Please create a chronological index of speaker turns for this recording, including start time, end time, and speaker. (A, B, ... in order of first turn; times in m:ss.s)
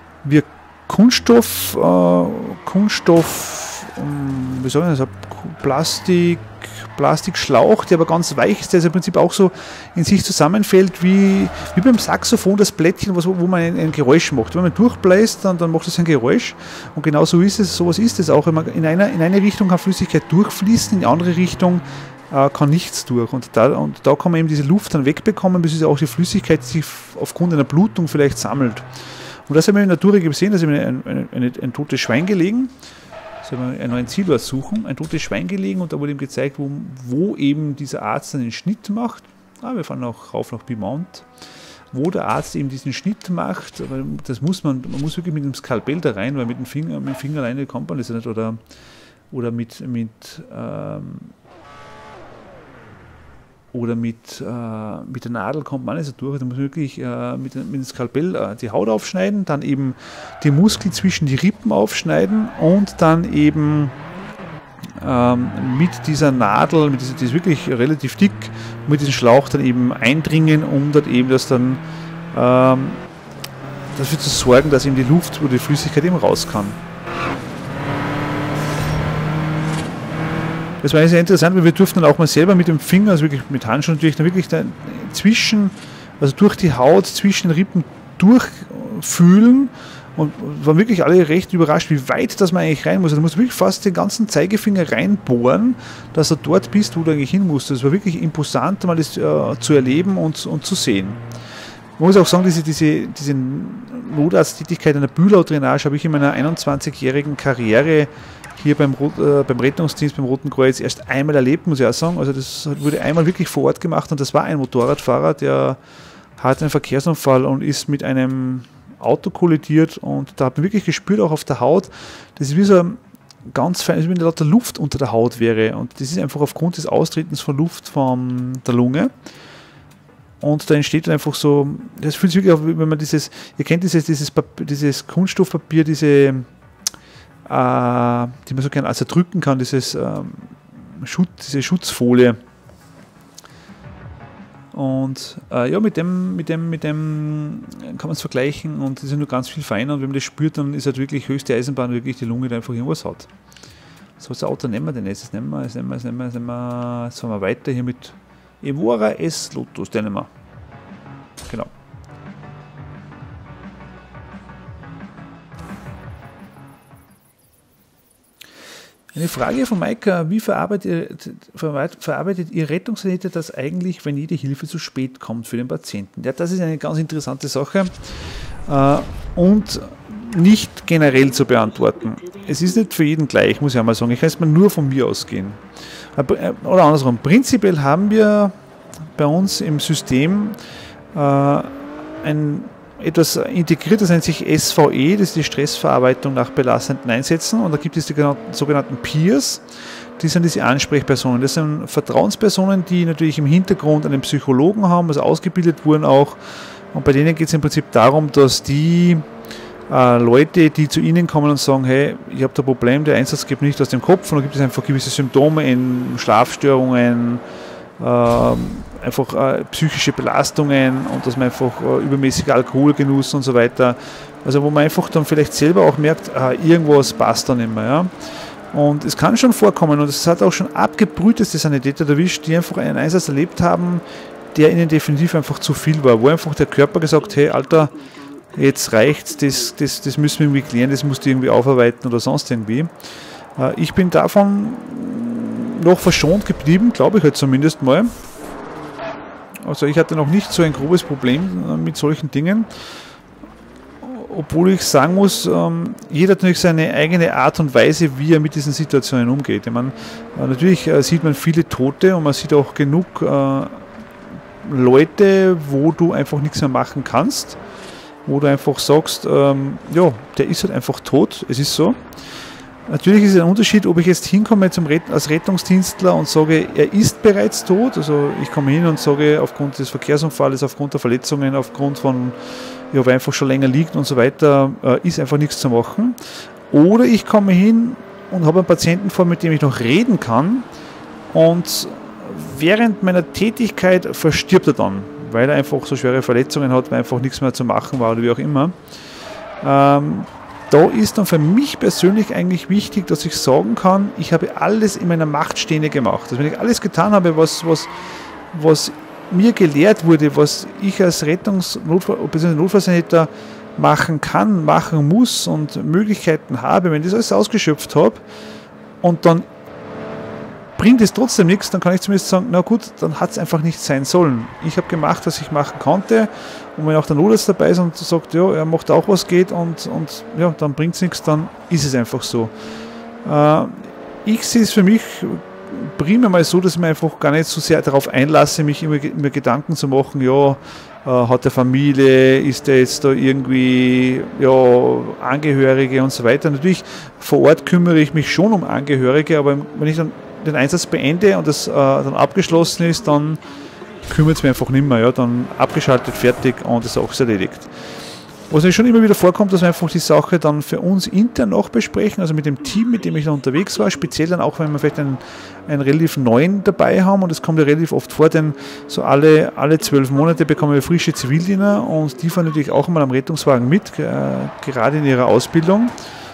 0:00.2-0:32.7 A
0:33.4-0:41.3 A
0:41.9-0:48.6 A
0:49.3-0:51.3 A
0:53.7-1:03.9 A
1:05.0-1:11.8 A
1:12.3-1:13.0 A
1:13.9-1:16.8 A
1:20.8-1:41.2 A
1:42.0-1:55.8 A
1:56.4-2:09.1 A
2:10.4-2:16.5 A
2:17.4-2:22.4 A
2:24.7-2:33.3 A
2:34.2-2:40.3 A
2:41.4-2:41.7 A
2:49.1-3:08.5 A
3:09.1-3:10.6 A
3:11.1-3:19.6 A
3:20.2-3:29.2 A
3:29.9-3:37.4 A
3:38.0-4:02.9 A
4:03.6-4:08.1 A
4:09.6-4:12.7 A
4:14.0-4:23.9 A
4:24.6-4:27.6 A
4:28.2-4:32.0 A
4:32.9-4:50.7 A
4:51.3-4:58.8 A
4:59.6-5:07.9 A
5:08.5-5:18.2 A
5:19.0-5:19.4 A
5:20.8-5:32.5 A
5:33.2-5:53.5 A
5:54.0-5:57.7 A
5:58.5-6:15.9 A